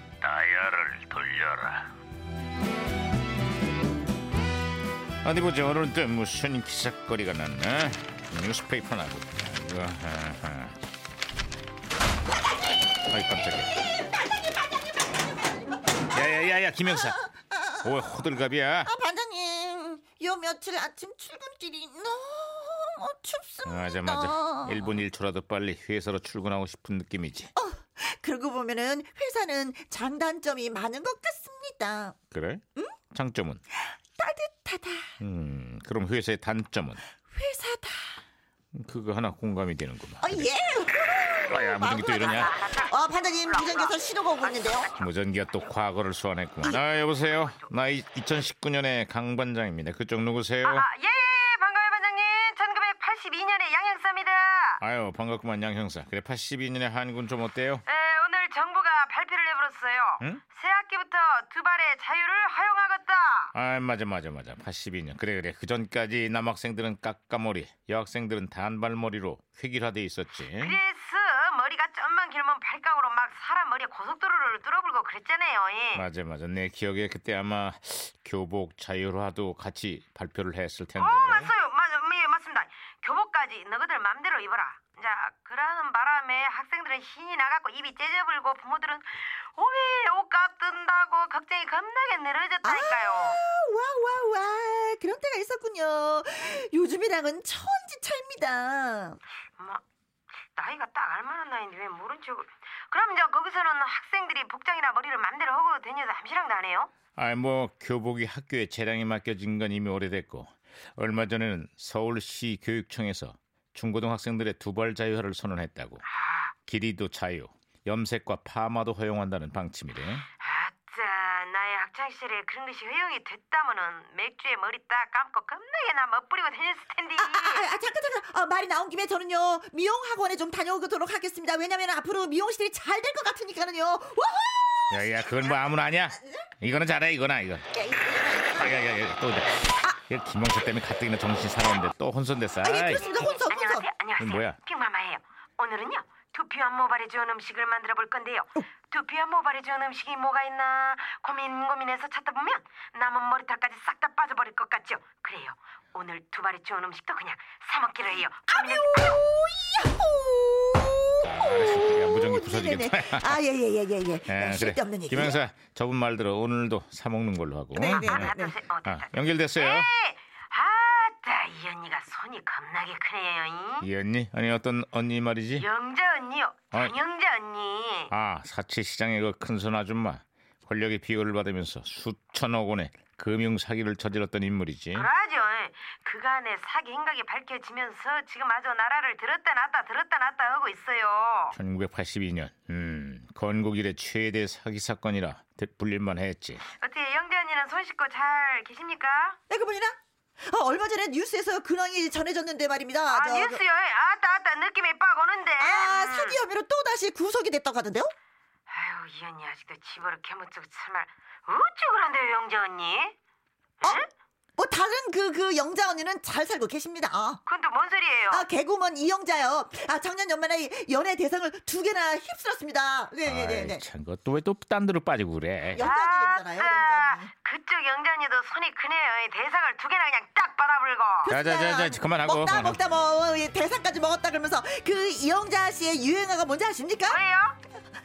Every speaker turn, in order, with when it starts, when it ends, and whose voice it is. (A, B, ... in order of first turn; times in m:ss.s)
0:00.2-0:01.9 A
0:05.2-0:10.8 A
0:13.1-0:13.8 A
0:16.1-0:17.2 A
0:16.8-0:18.1 B
0:17.8-0:18.9 A
0:18.8-0:24.9 B
0:23.6-0:27.5 A
0:27.6-0:32.2 B
0:32.3-0:33.6 A
0:34.2-0:35.2 B
0:35.2-0:37.0 A
0:37.3-0:38.2 B
0:38.7-0:40.5 A
0:40.2-0:44.9 B
0:41.5-0:42.6 A
0:42.0-0:45.1 C
0:44.9-0:50.9 A
0:47.2-0:47.7 C
0:50.6-0:54.8 C
0:54.8-0:57.8 A
0:57.9-1:03.5 C
1:03.6-1:10.8 A
1:10.5-1:16.0 C
1:15.9-1:21.5 A
1:21.0-1:33.4 C
1:32.6-1:39.2 B
1:39.6-1:39.8 C
1:40.6-1:46.9 C
1:47.2-1:56.0 A
1:56.1-1:56.5 C
1:56.7-2:00.3 A
2:00.4-2:07.7 C
2:07.2-2:16.5 B
2:14.9-2:17.8 A
2:17.8-2:18.8 B
2:18.4-2:23.2 A
2:22.6-2:23.9 B
2:23.0-2:39.2 C
2:24.2-2:24.6 A
2:38.5-2:45.4 B
2:41.2-2:43.4 A
2:44.3-2:49.9 A
2:47.7-2:48.6 B
2:47.8-2:53.9 C
2:53.8-2:55.7 A
2:55.6-2:58.1 C
2:56.7-2:57.0 A
2:58.1-3:05.1 A
3:04.9-3:11.6 C
3:11.5-3:16.6 A
3:16.7-3:19.4 C
3:19.5-3:23.6 B
3:23.1-3:26.4 C
3:25.6-3:28.1 B
3:28.7-3:33.2 C
3:33.8-3:34.1 C
3:34.6-3:37.4 B
3:37.4-3:38.4 C
3:38.3-3:43.8 B
3:43.2-3:45.9 A
3:45.7-3:47.3 B
3:45.8-3:51.3 C
3:51.2-3:57.2 B
3:51.3-3:52.8 A
3:57.0-3:57.6 C